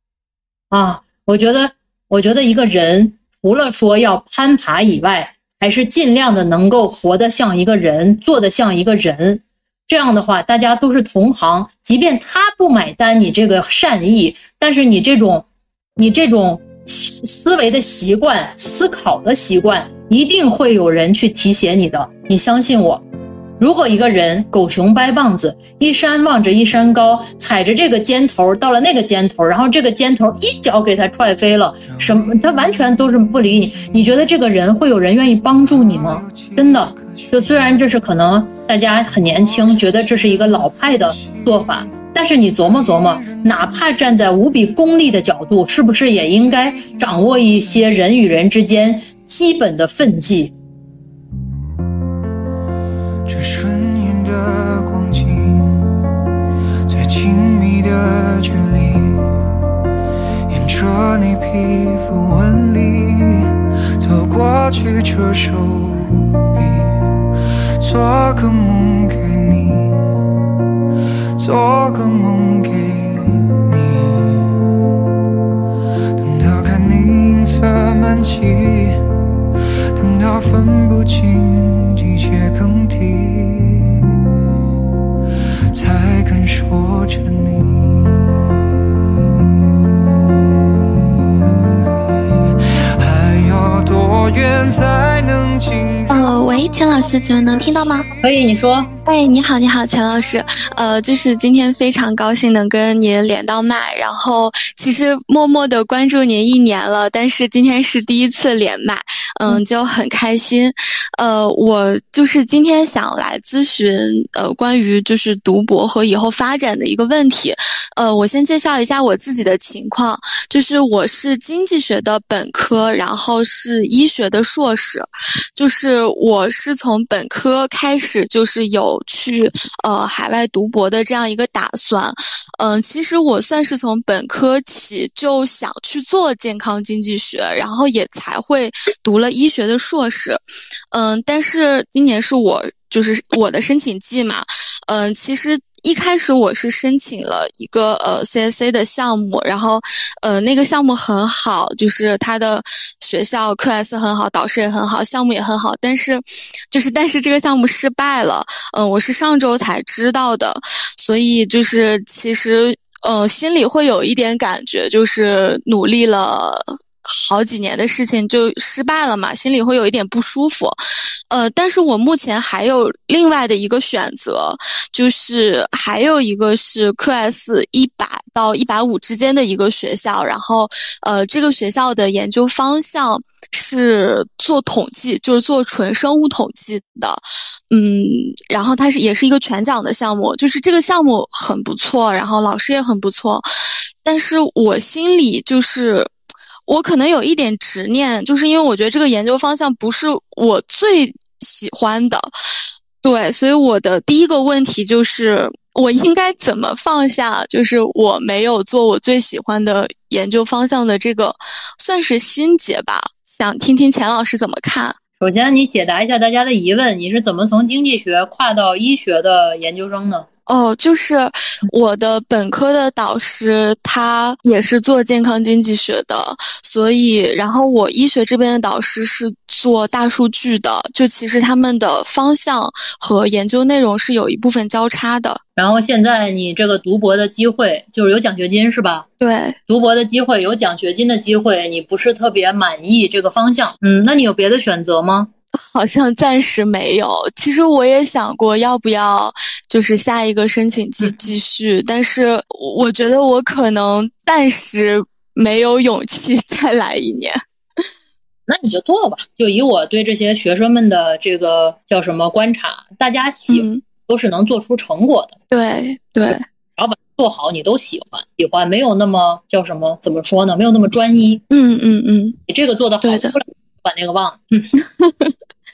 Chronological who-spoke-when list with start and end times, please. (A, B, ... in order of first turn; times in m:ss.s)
0:00.7-0:15.4 A
0:16.0-0:23.0 A
0:23.6-0:50.5 A
0:31.8-0:34.4 B
0:35.5-0:38.1 B
0:38.9-0:42.0 B
0:42.5-0:44.3 B
0:46.2-0:47.9 B
0:53.3-0:55.8 B
0:56.9-0:59.4 B
1:00.5-1:03.5 B
1:04.0-1:07.0 B
1:07.8-1:10.1 B
1:11.4-1:14.5 B
1:16.2-1:19.0 B
1:20.0-1:24.2 B
1:25.7-1:28.3 B
1:33.0-1:38.9 B
1:36.1-1:38.0 C
1:38.2-1:38.9 A
1:39.0-2:50.8 C
2:51.3-3:13.4 C
3:14.0-3:16.1 C
3:16.7-3:22.3 C
3:23.0-3:35.0 C
3:35.2-3:40.3 A
3:40.5-3:55.4 C
3:55.6-3:59.0 A
3:59.2-3:59.6 C
3:59.7-4:05.3 A
4:05.6-4:17.4 C
4:18.5-4:25.4 A
4:23.5-4:23.8 C
4:25.5-4:26.4 C
4:26.3-4:31.4 A
4:31.5-4:32.4 C
4:32.5-4:34.7 A
4:33.0-4:33.4 C
4:34.8-4:35.3 C